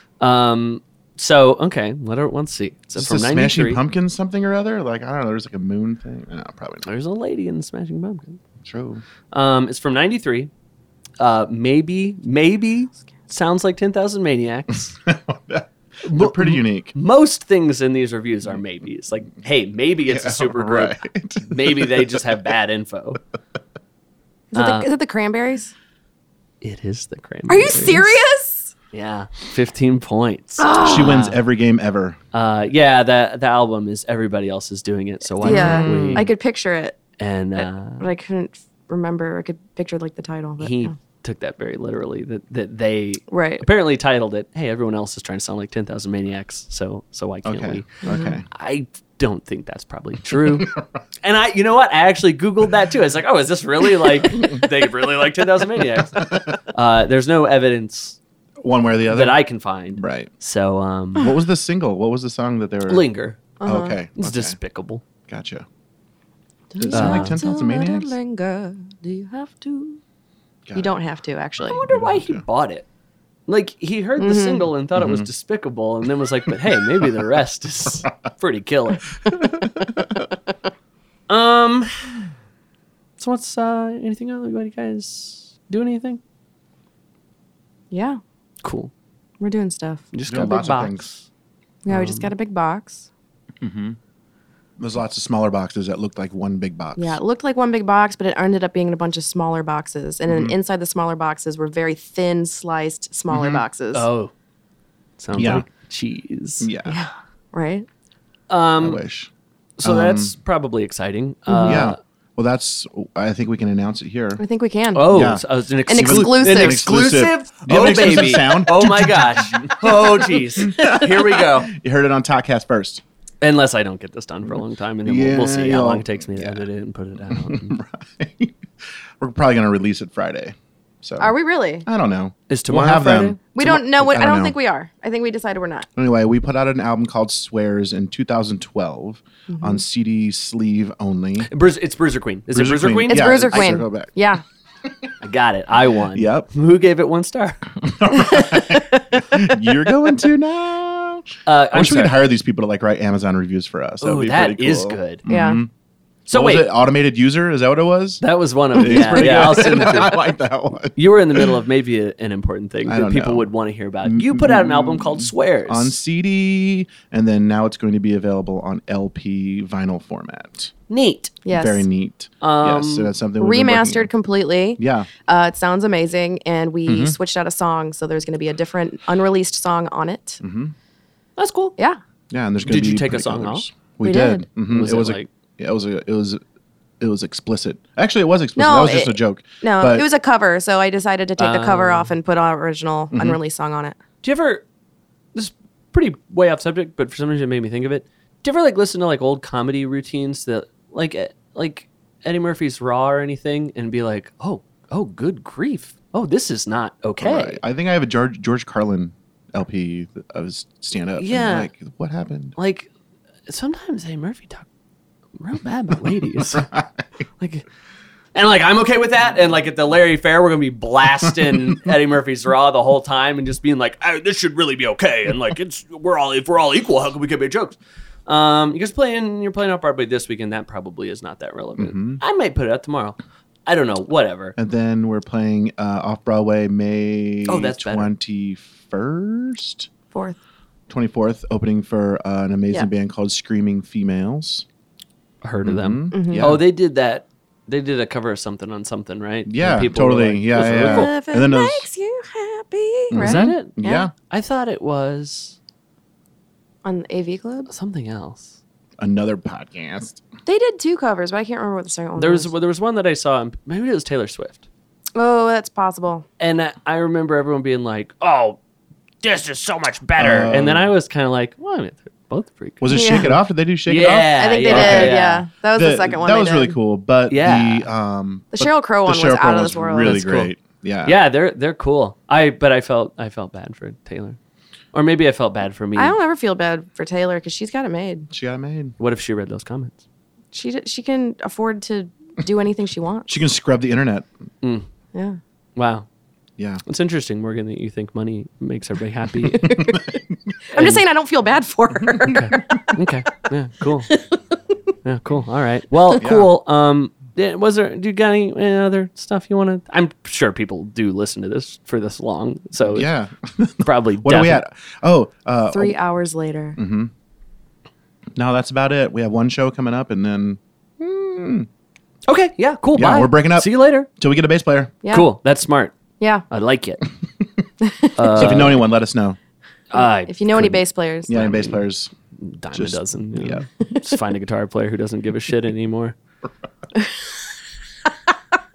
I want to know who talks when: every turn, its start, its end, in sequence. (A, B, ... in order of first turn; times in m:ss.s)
0:00.2-0:03.8 A
0:03.0-0:06.9 B
0:06.8-0:08.4 A
0:08.6-0:09.0 B
0:09.3-0:10.5 A
0:11.2-0:15.0 A
0:15.0-0:16.9 B
0:16.0-0:23.2 A
0:20.1-0:22.4 B
0:24.5-0:25.7 C
0:24.6-0:24.9 A
0:26.6-0:28.2 A
0:27.5-0:28.7 C
0:28.9-0:31.4 A
0:30.6-0:31.3 C
0:30.8-0:32.2 B
0:32.3-0:36.3 A
0:35.4-0:37.0 C
0:35.4-0:36.3 B
0:37.2-0:38.1 A
0:37.6-0:41.0 C
0:40.6-0:58.2 A
0:43.3-0:43.7 C
0:47.4-0:48.5 B
0:48.0-0:48.4 C
0:50.4-0:50.8 B
0:54.2-0:54.7 B
0:56.0-0:56.6 B
0:58.6-0:59.4 B
0:59.1-1:01.3 A
1:00.0-1:00.3 B
1:01.2-1:03.1 B
1:02.9-1:03.5 A
1:03.6-1:04.0 C
1:03.6-1:04.6 B
1:04.2-1:05.0 A
1:05.3-1:05.7 B
1:06.7-1:10.0 C
1:06.8-1:08.1 B
1:06.9-1:07.4 A
1:10.8-1:11.8 C
1:11.7-1:12.4 B
1:11.7-1:12.9 A
1:13.5-1:19.1 A
1:14.2-1:14.7 C
1:15.0-1:15.3 B
1:19.3-1:20.3 B
1:21.3-1:22.2 A
1:23.2-1:26.2 A
1:27.9-1:28.2 C
1:28.6-1:28.9 A
1:29.4-1:30.1 C
1:30.1-1:31.3 A
1:30.3-1:31.1 B
1:31.8-1:33.1 C
1:31.9-1:32.3 A
1:33.6-1:34.0 B
1:34.8-1:37.2 B
1:37.0-1:44.1 C
1:40.3-1:40.6 B
1:43.3-1:43.6 B
1:43.9-1:44.3 A
1:45.2-1:46.7 A
1:45.3-1:45.6 B
1:46.6-1:47.0 B
1:46.9-1:47.9 C
1:48.5-1:49.0 A
1:48.8-1:49.3 B
1:49.8-1:52.0 A
1:49.8-1:50.4 B
1:51.5-1:51.9 C
1:51.6-1:54.4 B
1:54.4-1:55.3 C
1:54.9-2:01.7 A
1:55.0-2:03.0 B
1:55.9-1:56.9 C
2:03.4-2:07.8 A
2:05.0-2:06.6 B
2:07.2-2:08.6 B
2:09.2-2:11.3 B
2:11.2-2:11.9 C
2:11.8-2:14.6 B
2:12.5-2:13.4 A
2:13.5-2:15.9 C
2:16.0-2:21.5 B
2:19.5-2:19.8 C
2:21.5-2:23.8 A
2:22.5-2:24.1 B
2:23.1-2:24.4 C
2:25.2-2:27.8 A
2:26.1-2:26.5 B
2:27.8-2:35.7 B
2:28.5-2:29.2 C
2:31.5-2:32.3 A
2:34.0-2:35.2 A
2:35.3-2:35.6 C
2:36.3-2:36.7 A
2:36.3-2:38.2 B
2:38.2-2:40.2 A
2:38.7-2:41.5 B
2:41.0-2:46.0 A
2:42.9-2:43.5 B
2:44.0-2:50.7 B
2:50.9-2:51.4 A
2:51.4-2:51.8 C
2:51.5-2:54.1 B
2:52.4-2:53.1 A
2:53.4-3:00.4 C
2:54.8-2:55.1 B
2:56.9-2:57.2 B
3:00.4-3:00.7 B
3:01.4-3:01.7 A
3:02.3-3:06.4 B
3:02.6-3:03.7 A
3:04.0-3:04.5 C
3:04.7-3:05.3 A
3:07.0-3:10.1 B
3:08.6-3:14.0 C
3:11.4-3:12.1 A
3:13.1-3:13.4 B
3:14.2-3:14.6 A
3:15.4-3:27.6 A
3:27.2-3:32.6 B
3:31.2-3:31.7 A
3:32.6-3:32.9 A
3:33.5-3:34.7 A
3:35.4-3:36.7 A
3:36.5-3:37.0 B
3:37.4-3:37.6 A
3:38.4-3:54.6 A
3:51.8-3:52.2 B
3:54.6-3:59.9 B
3:57.5-3:58.1 A
4:00.1-4:00.4 C
4:00.9-4:04.6 B
4:05.4-4:11.1 A
4:05.6-4:06.6 B
4:06.1-4:06.6 C
4:09.5-4:11.9 B
4:10.6-4:14.1 C
4:13.1-4:14.1 B
4:13.2-4:15.6 A
4:16.8-4:17.7 C
4:17.7-4:18.6 A
4:19.0-4:20.2 B
4:20.5-4:22.5 C
4:22.2-4:24.6 A
4:25.2-4:26.3 C
4:26.4-4:28.6 A
4:29.2-4:33.3 A
4:30.2-4:30.9 B
4:32.8-4:35.2 B
4:32.9-4:33.4 C
4:33.9-4:35.5 A
4:34.4-4:36.8 C
4:35.8-4:41.2 B
4:37.3-4:37.9 A
4:38.5-4:40.3 C
4:40.0-4:40.5 A
4:41.0-4:44.4 A
4:44.9-4:46.2 A
4:46.0-4:48.3 C
4:48.3-4:49.0 B
4:49.0-4:50.0 A
4:50.5-4:53.3 C
4:53.3-4:54.3 B
4:55.1-4:55.4 C
4:55.8-4:56.1 A
4:56.6-4:56.8 B
4:56.8-4:59.8 A
4:59.4-5:00.2 C
4:59.6-5:00.2 B
5:00.7-5:03.0 C
5:00.8-5:01.0 A
5:02.3-5:04.1 A
5:04.1-5:04.4 C
5:05.0-5:13.1 A
5:06.2-5:06.5 B
5:12.8-5:16.0 B
5:13.8-5:14.6 A
5:15.7-5:16.8 C
5:16.8-5:17.1 B
5:18.4-5:21.7 B
5:22.3-5:24.1 A
5:22.9-5:25.0 B
5:25.0-5:25.3 C
5:25.1-5:26.0 A
5:26.2-5:26.4 C
5:26.5-5:27.0 A
5:27.8-5:28.7 C
5:28.2-5:28.8 A
5:28.4-5:29.4 B
5:29.9-5:30.8 A
5:30.3-5:31.4 C
5:31.3-5:32.1 B
5:31.3-5:31.8 A
5:32.4-5:36.2 A
5:32.7-5:33.6 B